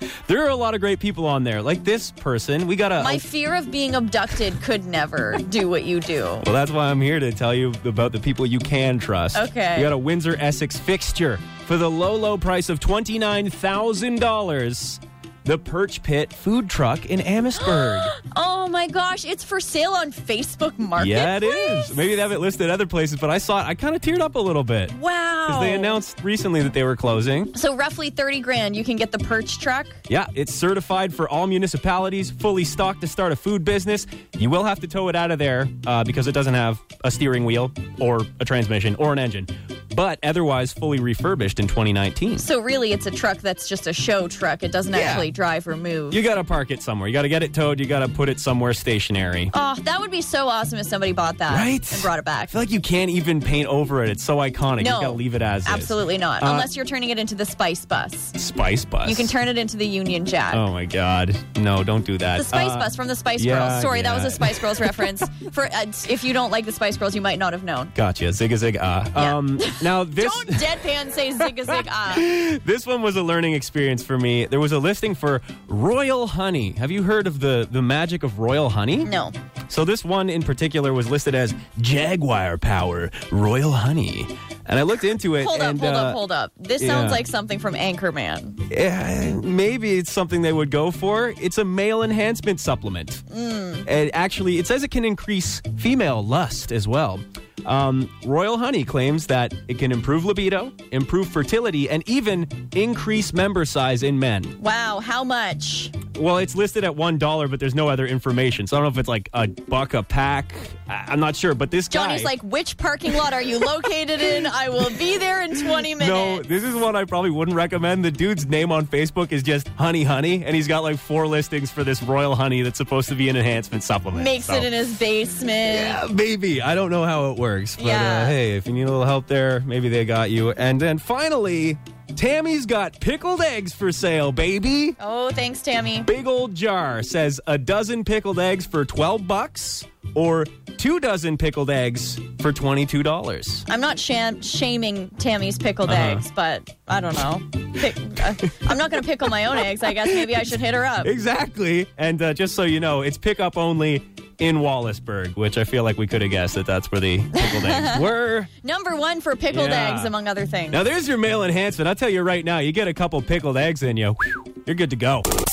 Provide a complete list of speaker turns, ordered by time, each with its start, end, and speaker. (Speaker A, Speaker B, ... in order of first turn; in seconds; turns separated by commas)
Speaker A: 0.3-3.2, Speaker B: 3.0-6.5, Speaker A: 6.4-18.1, Speaker B: 9.3-9.9, Speaker B: 17.6-22.0, Speaker A: 21.0-24.9, Speaker B: 24.9-26.0, Speaker A: 25.5-27.5, Speaker B: 27.5-30.0, Speaker A: 30.1-42.5, Speaker B: 42.4-46.2, Speaker A: 44.9-45.3, Speaker A: 46.1-49.5, Speaker B: 49.5-52.5, Speaker A: 51.5-56.7, Speaker B: 54.8-58.4, Speaker A: 58.4-59.3, Speaker B: 59.0-60.7, Speaker A: 60.5-65.2, Speaker B: 62.4-67.9, Speaker A: 68.0-70.7, Speaker B: 69.2-72.3, Speaker A: 71.7-79.1, Speaker B: 79.0-79.3, Speaker A: 79.7-86.2, Speaker B: 85.3-88.6, Speaker A: 86.8-87.2, Speaker A: 88.7-93.2, Speaker B: 93.3-93.9, Speaker A: 93.8-104.6, Speaker B: 104.6-106.0, Speaker A: 106.1-112.3, Speaker B: 111.9-116.4, Speaker A: 115.9-124.7, Speaker B: 124.2-126.0, Speaker A: 125.7-135.0, Speaker B: 127.8-128.3, Speaker B: 135.0-136.1, Speaker A: 136.1-143.7, Speaker B: 143.7-151.1, Speaker A: 145.9-146.2, Speaker A: 151.0-158.5, Speaker B: 157.4-158.1, Speaker B: 158.6-160.8, Speaker A: 159.5-160.2, Speaker A: 160.7-165.3